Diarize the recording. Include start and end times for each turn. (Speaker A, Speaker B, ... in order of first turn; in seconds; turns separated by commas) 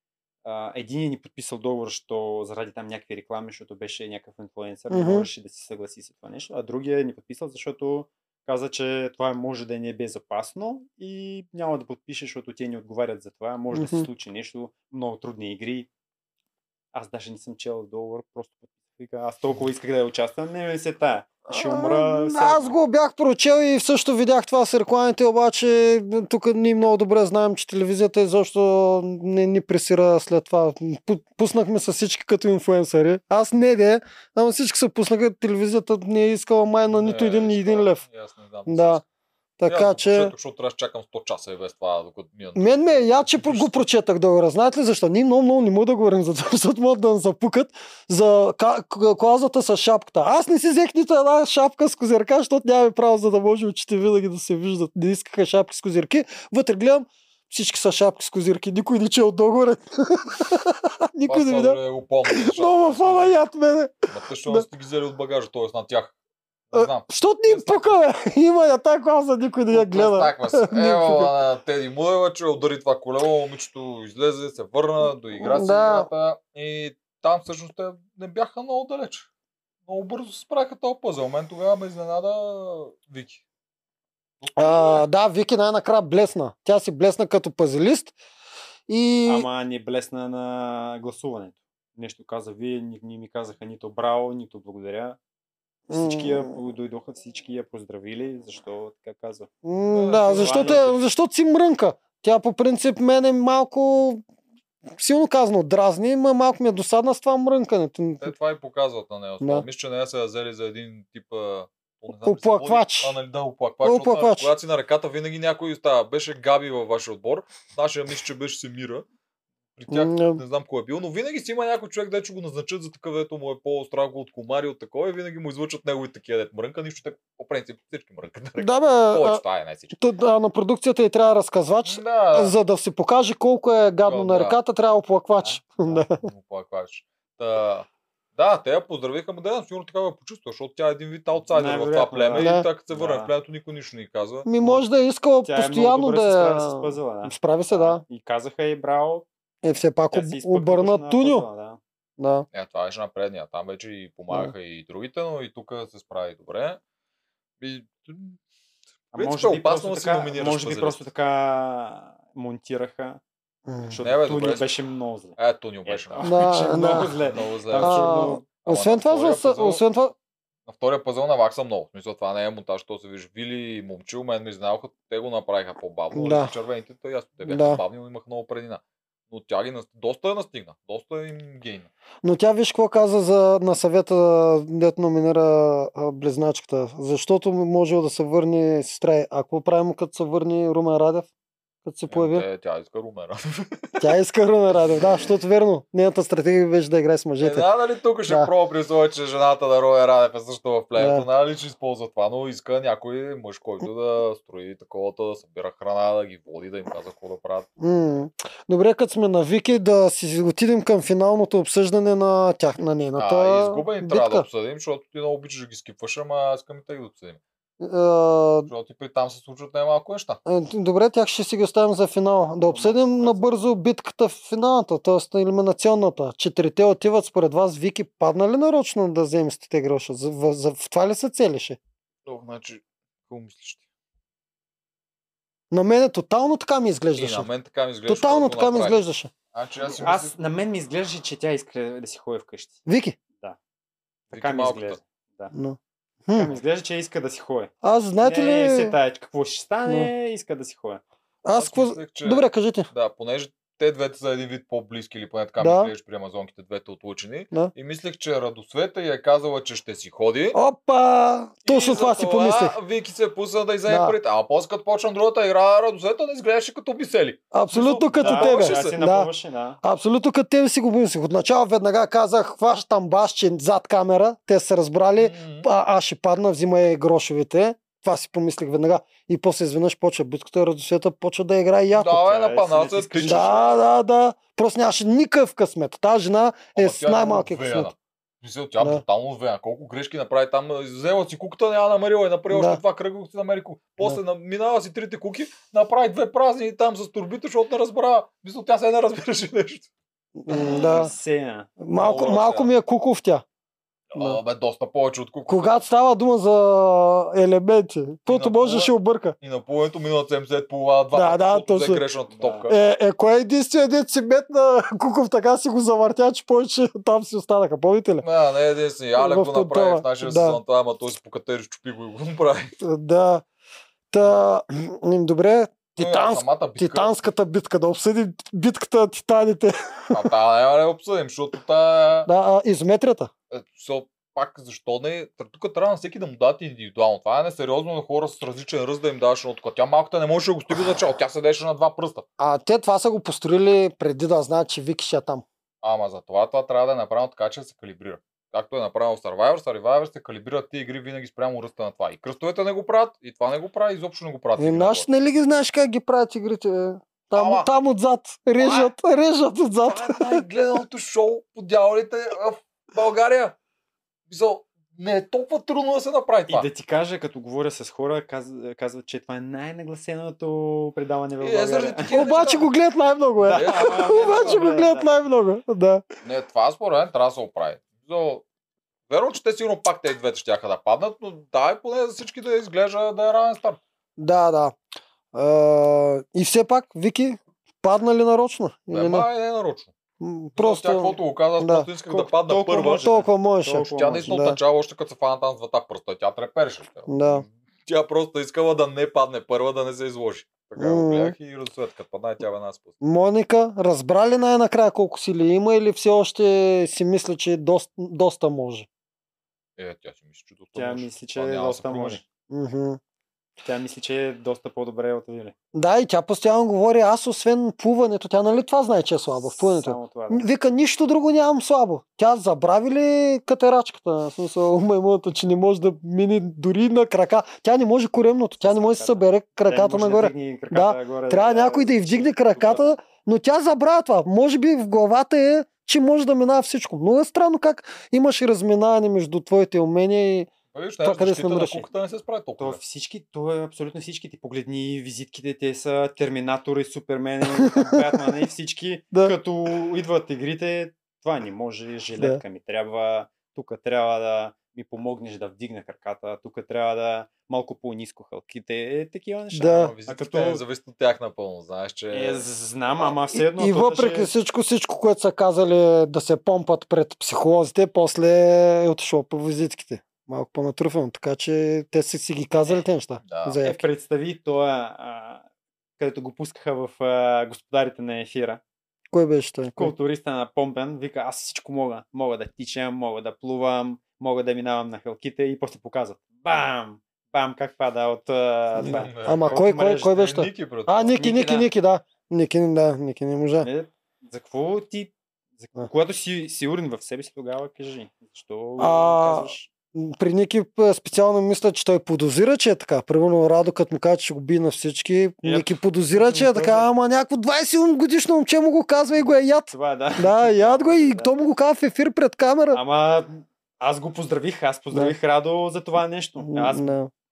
Speaker A: 0.4-15.9, Speaker B: 4.9-5.3, Speaker B: 13.7-14.1, Speaker A: 16.9-22.8, Speaker B: 21.5-38.0, Speaker C: 36.9-39.0, Speaker B: 38.7-39.0, Speaker B: 39.6-40.3, Speaker C: 39.6-43.8, Speaker B: 42.5-61.8, Speaker C: 61.3-63.4, Speaker B: 62.3-64.7, Speaker C: 64.1-66.1, Speaker C: 66.7-68.0, Speaker B: 66.7-71.3, Speaker C: 69.7-79.3, Speaker B: 75.4-76.1, Speaker C: 79.9-83.4, Speaker C: 84.4-85.0, Speaker B: 84.5-88.1, Speaker B: 88.9-89.5, Speaker A: 89.2-95.2, Speaker B: 95.9-96.5, Speaker A: 95.9-99.5, Speaker B: 99.6-104.2, Speaker C: 99.9-101.0, Speaker A: 100.2-101.0, Speaker B: 105.0-108.3, Speaker C: 108.2-119.0, Speaker B: 112.2-113.2, Speaker B: 113.8-114.5, Speaker C: 119.8-129.9, Speaker B: 119.9-120.4, Speaker B: 128.6-129.4, Speaker B: 129.9-136.2, Speaker C: 131.8-132.5, Speaker C: 134.1-134.6, Speaker A: 135.4-136.0, Speaker C: 136.1-144.5, Speaker A: 141.4-143.3, Speaker B: 142.4-142.7, Speaker B: 144.4-148.0, Speaker A: 145.4-149.3, Speaker B: 149.6-151.4, Speaker A: 150.1-151.8, Speaker B: 152.2-152.4, Speaker C: 152.5-156.8, Speaker C: 157.6-158.4, Speaker C: 159.1-161.0, Speaker A: 159.1-163.2, Speaker B: 163.7-164.0, Speaker A: 163.9-168.4, Speaker C: 164.0-164.7, Speaker C: 165.4-166.3, Speaker B: 166.2-167.1, Speaker C: 167.3-169.8, Speaker B: 167.7-170.1, Speaker C: 170.7-181.9, Speaker B: 176.1-176.5, Speaker B: 177.4-177.8, Speaker B: 182.2-191.3, Speaker B: 191.8-192.4, Speaker C: 192.1-194.1, Speaker B: 194.0-197.7, Speaker C: 197.4-207.7, Speaker B: 200.9-201.2, Speaker B: 207.8-214.4, Speaker C: 213.2-217.4, Speaker B: 217.8-218.7, Speaker C: 218.7-220.4, Speaker B: 220.4-231.8, Speaker A: 222.7-223.4, Speaker C: 232.2-233.8, Speaker B: 235.7-237.5, Speaker C: 237.2-240.3, Speaker B: 238.1-239.3, Speaker A: 239.9-242.8, Speaker B: 242.8-243.2, Speaker C: 244.3-245.0, Speaker A: 244.3-245.5, Speaker B: 245.5-246.5, Speaker A: 246.3-251.0, Speaker B: 247.8-248.9, Speaker B: 251.4-252.9, Speaker C: 251.5-260.6, Speaker B: 255.6-255.9, Speaker B: 260.5-262.7, Speaker C: 261.6-269.0, Speaker B: 263.9-264.1, Speaker B: 267.5-269.3, Speaker A: 268.2-269.8, Speaker B: 269.8-282.3, Speaker C: 275.2-275.7, Speaker C: 281.9-283.7, Speaker A: 282.3-283.8, Speaker B: 283.2-287.9, Speaker C: 286.7-299.9, Speaker B: 292.5-292.8, Speaker B: 300.4-301.1, Speaker A: 300.5-301.7, Speaker B: 301.8-303.4, Speaker C: 301.9-302.7, Speaker C: 304.1-305.8, Speaker B: 305.5-309.3, Speaker C: 308.3-312.8, Speaker B: 311.1-312.0, Speaker A: 312.3-312.7, Speaker B: 312.7-318.2, Speaker C: 318.2-322.7, Speaker B: 319.1-320.6, Speaker B: 322.8-323.4, Speaker B: 324.1-330.2, Speaker C: 326.0-327.1, Speaker C: 330.1-332.3, Speaker B: 332.2-333.3, Speaker C: 333.5-342.2, Speaker B: 342.4-345.4, Speaker C: 345.8-355.1, Speaker B: 354.6-360.4, Speaker C: 357.3-357.7, Speaker C: 358.6-358.9, Speaker C: 359.8-363.6, Speaker C: 364.3-366.7, Speaker A: 366.5-372.5, Speaker C: 371.4-372.7, Speaker B: 372.1-376.0, Speaker A: 373.4-375.1, Speaker C: 373.5-374.1, Speaker C: 376.2-378.4, Speaker C: 379.1-383.8, Speaker B: 384.2-384.8, Speaker B: 385.3-389.3, Speaker C: 388.9-389.9, Speaker B: 390.2-391.9, Speaker C: 390.6-393.2, Speaker A: 392.1-394.4, Speaker B: 392.9-394.6, Speaker C: 393.9-402.9, Speaker B: 397.1-397.4, Speaker B: 400.8-401.3, Speaker B: 403.0-408.9, Speaker C: 409.8-412.2, Speaker A: 410.7-412.2, Speaker B: 412.5-413.0, Speaker A: 413.6-415.5, Speaker B: 415.7-440.5, Speaker A: 419.4-420.5, Speaker A: 428.6-432.9, Speaker C: 440.7-442.8, Speaker B: 441.0-441.9, Speaker A: 442.6-460.6, Speaker B: 459.5-459.9, Speaker C: 459.7-462.4, Speaker A: 462.1-464.3, Speaker B: 463.3-473.8, Speaker C: 473.2-473.6, Speaker A: 473.6-475.4, Speaker A: 476.0-478.6, Speaker B: 479.1-479.9, Speaker A: 479.8-490.2, Speaker B: 488.8-493.7, Speaker C: 488.8-491.1, Speaker A: 491.2-491.7, Speaker A: 493.6-499.7, Speaker B: 498.8-512.8, Speaker A: 505.4-506.9, Speaker A: 509.2-511.3, Speaker A: 512.7-516.9, Speaker B: 516.5-517.1